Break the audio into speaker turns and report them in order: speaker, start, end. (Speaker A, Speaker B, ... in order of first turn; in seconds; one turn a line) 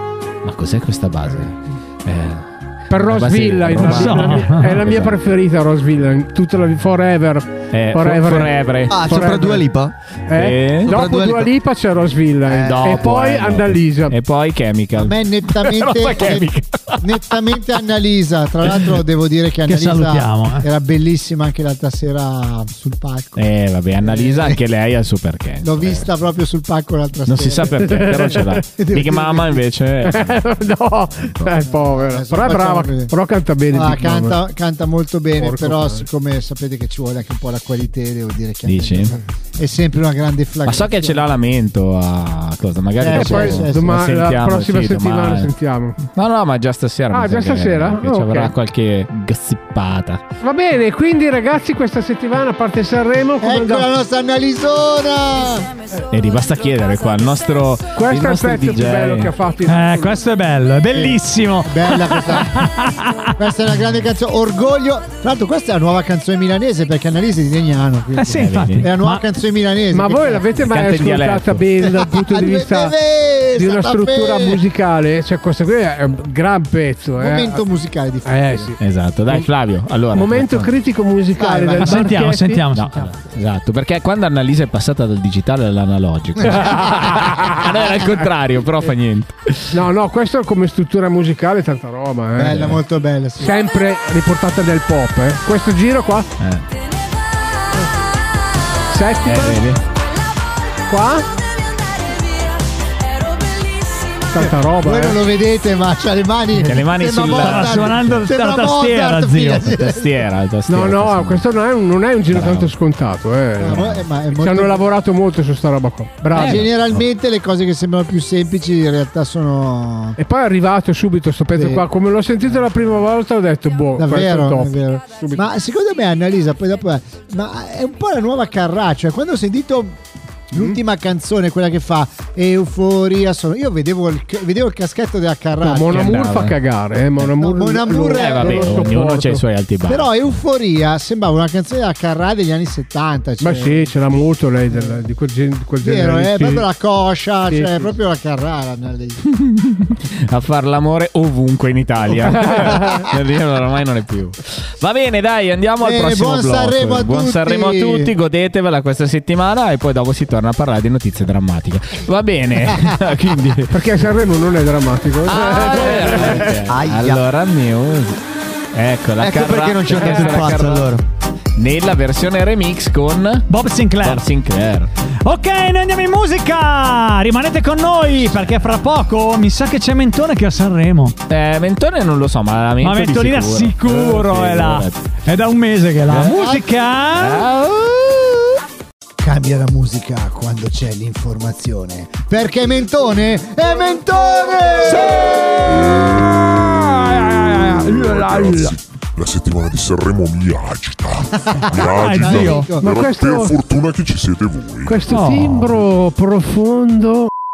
Speaker A: 0.4-1.5
Speaker A: 2.0-5.2
Speaker B: 2.9-9.7
Speaker C: 3.8-4.2
Speaker D: 3.9-4.8
Speaker A: 7.7-9.4
Speaker C: 8.9-9.9
Speaker B: 10.3-14.2
Speaker A: 10.3-11.0
Speaker C: 10.8-11.5
Speaker A: 12.5-17.6
Speaker E: 14.9-23.5
Speaker D: 19.7-20.7
Speaker A: 23.4-26.1
Speaker E: 24.0-24.6
Speaker E: 25.6-29.6
Speaker A: 27.3-30.6
Speaker B: 27.8-28.6
Speaker B: 30.0-34.4
Speaker A: 31.2-31.5
Speaker E: 31.6-33.1
Speaker E: 33.7-41.3
Speaker B: 35.4-36.1
Speaker A: 38.6-39.2
Speaker A: 40.6-45.5
Speaker E: 43.0-44.1
Speaker B: 43.1-46.0
Speaker A: 46.1-50.2
Speaker B: 47.1-48.5
Speaker B: 50.4-53.9
Speaker E: 53.4-55.7
Speaker A: 56.1-59.3
Speaker B: 57.9-60.2
Speaker D: 59.6-63.3
Speaker E: 60.9-62.7
Speaker E: 63.4-70.5
Speaker D: 68.2-69.2
Speaker A: 68.3-68.9
Speaker B: 69.9-73.0
Speaker A: 70.6-71.7
Speaker E: 71.8-74.6
Speaker B: 73.5-77.6
Speaker E: 77.2-78.7
Speaker B: 78.2-78.8
Speaker A: 78.8-80.7
Speaker B: 80.1-82.6
Speaker E: 81.4-82.2
Speaker D: 81.8-83.1
Speaker A: 82.7-89.8
Speaker B: 89.7-92.8
Speaker E: 92.4-93.5
Speaker B: 93.4-96.3
Speaker A: 96.4-96.7
Speaker B: 98.9-99.6
Speaker A: 99.2-99.8
Speaker B: 100.9-101.3
Speaker B: 104.3-105.2
Speaker E: 104.3-110.2
Speaker A: 106.6-108.2
Speaker D: 107.2-109.7
Speaker A: 109.7-111.5
Speaker B: 110.7-116.7
Speaker A: 112.3-112.7
Speaker E: 113.6-114.8
Speaker A: 113.7-114.0
Speaker E: 116.3-120.2
Speaker A: 116.3-117.1
Speaker B: 120.2-125.4
Speaker E: 121.5-121.9
Speaker E: 124.0-130.0
Speaker E: 130.5-136.2
Speaker B: 135.6-139.4
Speaker A: 135.9-136.6
Speaker E: 137.2-139.0
Speaker A: 138.1-140.1
Speaker E: 139.9-143.9
Speaker B: 143.4-146.7
Speaker E: 144.7-145.0
Speaker E: 145.8-149.2
Speaker B: 147.5-147.8
Speaker A: 149.3-163.8
Speaker B: 152.3-153.0
Speaker E: 155.8-158.1
Speaker B: 163.7-166.5
Speaker A: 165.3-168.2
Speaker C: 166.3-167.2
Speaker A: 168.7-170.9
Speaker C: 169.2-171.0
Speaker A: 171.6-174.9
Speaker D: 173.5-174.2
Speaker D: 175.2-181.2
Speaker A: 181.3-185.1
Speaker D: 182.8-187.5
Speaker A: 186.1-186.5
Speaker E: 186.3-186.6
Speaker A: 187.2-188.4
Speaker E: 189.2-196.0
Speaker D: 194.9-195.5
Speaker F: 195.6-205.1
Speaker D: 196.8-198.7
Speaker E: 201.4-202.9
Speaker D: 201.8-202.7
Speaker B: 202.8-203.5
Speaker B: 204.9-207.3
Speaker D: 205.1-205.8